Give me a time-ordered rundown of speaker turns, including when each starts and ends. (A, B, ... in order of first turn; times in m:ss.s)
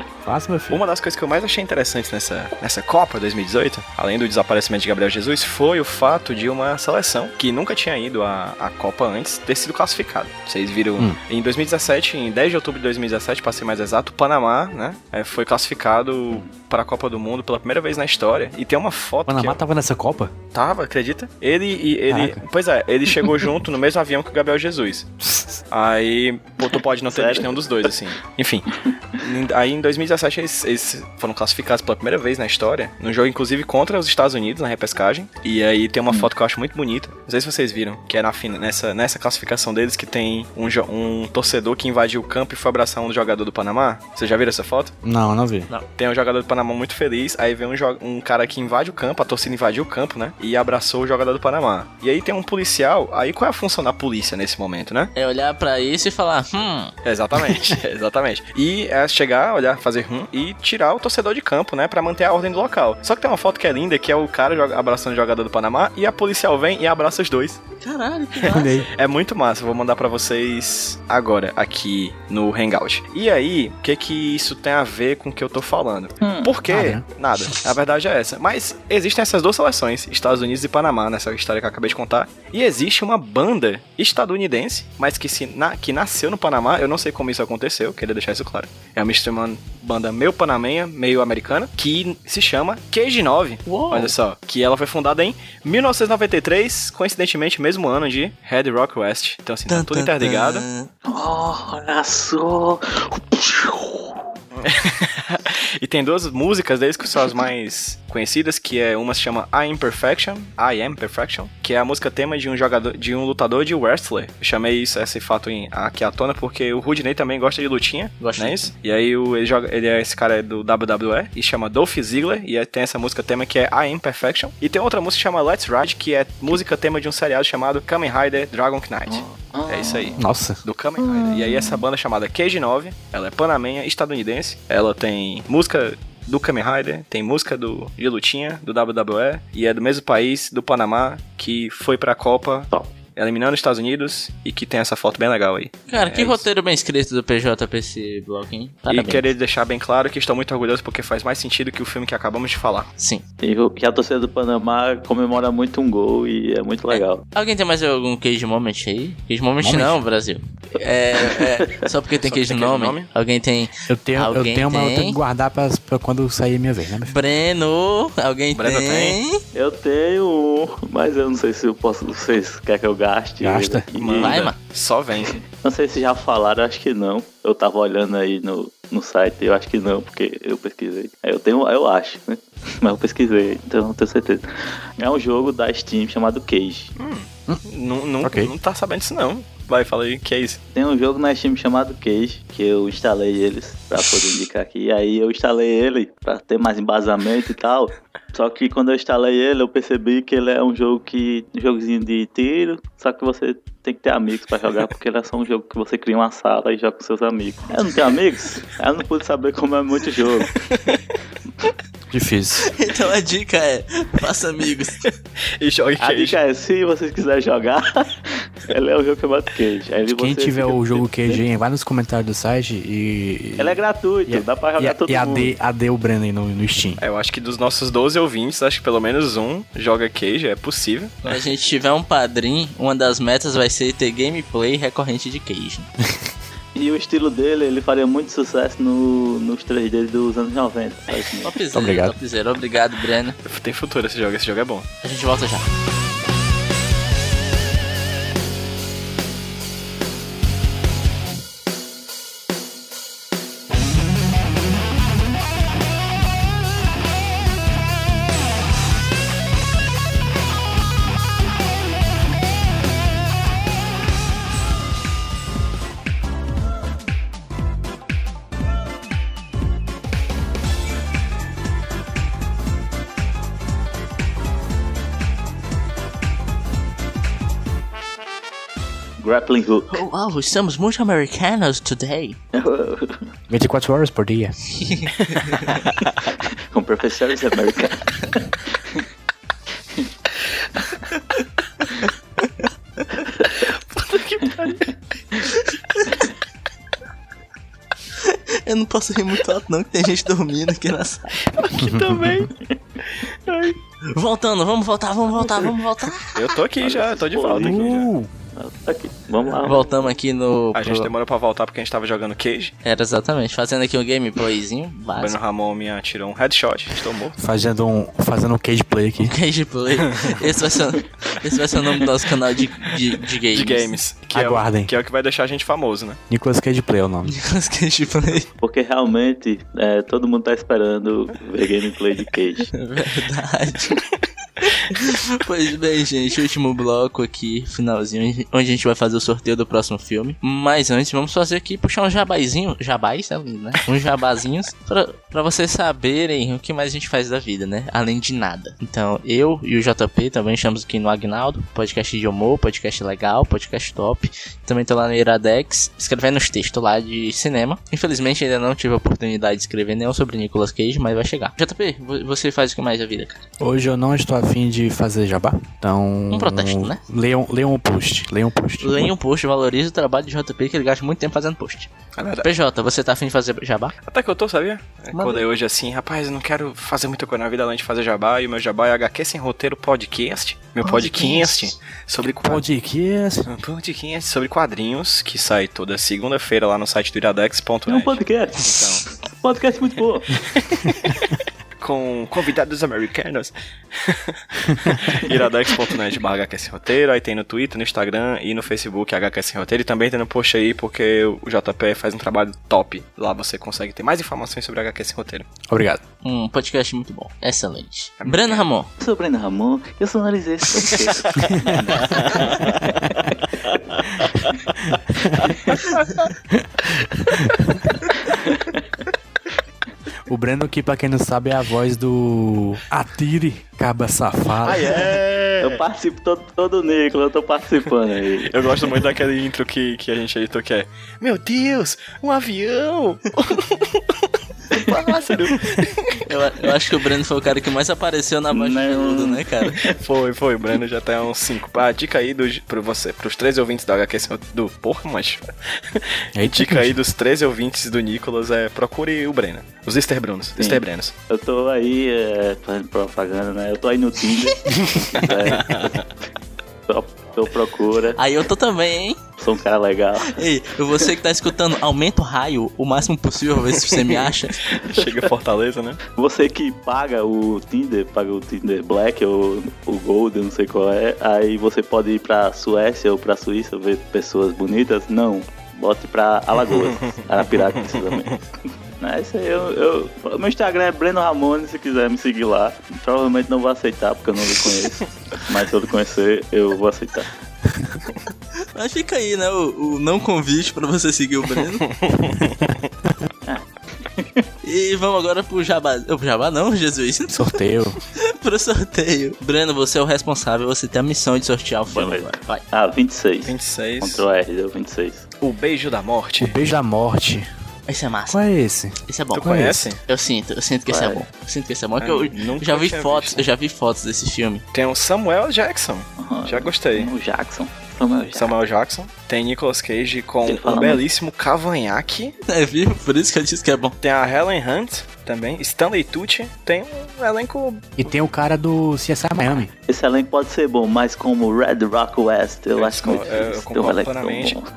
0:00.2-0:00.8 A
0:00.7-0:19.6 B
0:19.2-0:20.3 A
0:20.5-0:25.1 B
0:22.1-0:22.4 A
0:25.2-0:25.5 A
0:25.7-0:44.9 B
0:27.1-0:27.5 C
0:45.0-0:45.7 A
0:46.0-0:55.1 B
0:55.2-0:56.9 D
0:57.0-1:07.6 B
1:07.8-1:08.7 D
1:08.4-1:40.6 B
1:08.4-1:08.9 A
1:16.2-1:16.5 C
1:16.6-1:17.0 A
1:33.6-1:34.1 D
1:39.7-1:40.9 D
1:41.0-1:44.2 C
1:44.5-2:26.5 B
1:58.2-1:58.7 D
2:09.0-2:10.2 C
2:10.2-2:10.6 A
2:11.0-2:11.8 C
2:25.9-2:29.2 D
2:28.9-2:32.9 B
2:33.0-2:33.2 D
2:33.4-2:37.2 C
2:36.9-2:45.2 D
2:39.6-2:40.0 A
2:42.2-2:43.1 B
2:43.9-2:47.1 A
2:47.0-2:49.4 D
2:48.5-2:49.2 B
2:49.5-2:54.4 C
2:53.4-2:53.9 A
2:53.9-2:55.4 B
2:54.2-2:54.6 D
2:55.5-3:04.4 C
3:05.0-3:06.9 C
3:07.0-3:10.6 B
3:08.2-3:08.5 A
3:10.7-3:30.5 C
3:30.7-3:31.0 B
3:32.1-3:32.7 A
3:32.7-3:35.0 D
3:35.6-3:36.4 B
3:36.0-3:41.4 C
3:40.1-3:47.0 A
3:43.6-3:45.5 C
3:47.0-3:51.2 B
3:51.2-3:55.9 D
3:56.7-4:01.5 C
4:01.4-4:03.4 D
4:01.7-4:02.2 A
4:03.4-4:04.9 B
4:05.0-4:05.6 D
4:39.2-4:40.0 C
4:39.9-4:42.4 D
4:42.5-4:43.3 C
4:43.5-4:45.0 A
4:46.5-4:49.0 C
4:53.3-4:53.5 C
4:54.1-4:54.8 B
4:55.6-4:56.0 D
4:58.2-5:01.4 D
5:01.6-5:02.5 B
5:01.8-5:02.5 A
5:04.1-5:06.6 D
5:06.3-5:08.1 B
5:06.8-5:10.1 C
5:07.6-5:08.3 A
5:09.6-5:11.1 D
5:10.7-5:12.7 B
5:12.8-5:15.4 D
5:15.2-5:17.4 B
5:17.4-5:19.4 A
5:19.2-5:23.9 D
5:20.1-5:20.4 B
5:23.5-5:26.2 B
5:24.3-5:24.9 A
5:26.3-5:27.3 A
5:27.3-5:28.5 D
5:28.6-5:32.7 C
5:32.7-5:34.0 D
5:34.9-6:03.4 D
6:03.6-6:09.1 A
6:06.3-6:07.0 D
6:08.8-6:13.9 D
6:12.2-6:12.5 B
6:14.0-6:22.6 B
6:15.1-6:15.4 D
6:20.8-6:21.7 D
6:22.4-6:23.5 A
6:23.5-6:29.0 B
6:27.9-6:30.4 C
6:30.4-6:31.2 B
6:31.8-6:45.5 B
6:45.7-6:46.0 A
6:46.2-6:48.9 D
6:48.2-6:48.7 B
6:49.0-6:52.6 C
6:52.1-6:52.8 B
6:54.8-6:55.5 A
6:56.5-6:57.9 A
6:58.2-6:59.0 C
7:00.2-7:05.0 A
7:04.6-7:05.8 B
7:05.6-7:08.5 C
7:08.5-7:14.1 B
7:14.7-7:15.3 C
7:14.7-7:16.2 B
7:16.2-7:19.8 D
7:18.5-7:19.9 C
7:19.8-7:31.1 B
7:26.4-7:26.9 A
7:30.6-7:35.7 C
7:35.2-7:36.1 B
7:36.9-7:38.2 C
7:38.2-7:39.2 D
7:39.4-7:40.4 C
7:40.3-7:44.6 D
7:43.9-7:46.0 B
7:46.2-7:58.4 C
7:56.7-7:57.1 B
7:59.0-8:07.3 C
8:08.7-8:12.0 D
8:12.0-8:12.7 B
8:13.4-8:14.4 C
8:14.6-8:17.5 D
8:17.3-8:18.0 A
8:18.1-8:22.6 D
8:21.9-8:25.2 C
8:23.4-8:24.2 B
8:25.4-8:26.6 B
8:26.4-8:27.5 A
8:27.9-8:28.4 D
8:28.3-8:29.8 A
8:29.0-8:34.6 D
8:29.3-8:30.0 B
8:30.9-8:31.2 C
8:32.0-8:33.4 B
8:34.7-8:37.1 B
8:36.2-8:38.5 C
8:38.3-8:42.3 B
8:40.4-8:41.0 C
8:42.5-8:44.0 D
8:44.0-8:48.0 B
8:48.0-8:49.7 A
8:49.9-8:54.7 C
8:52.8-8:54.6 B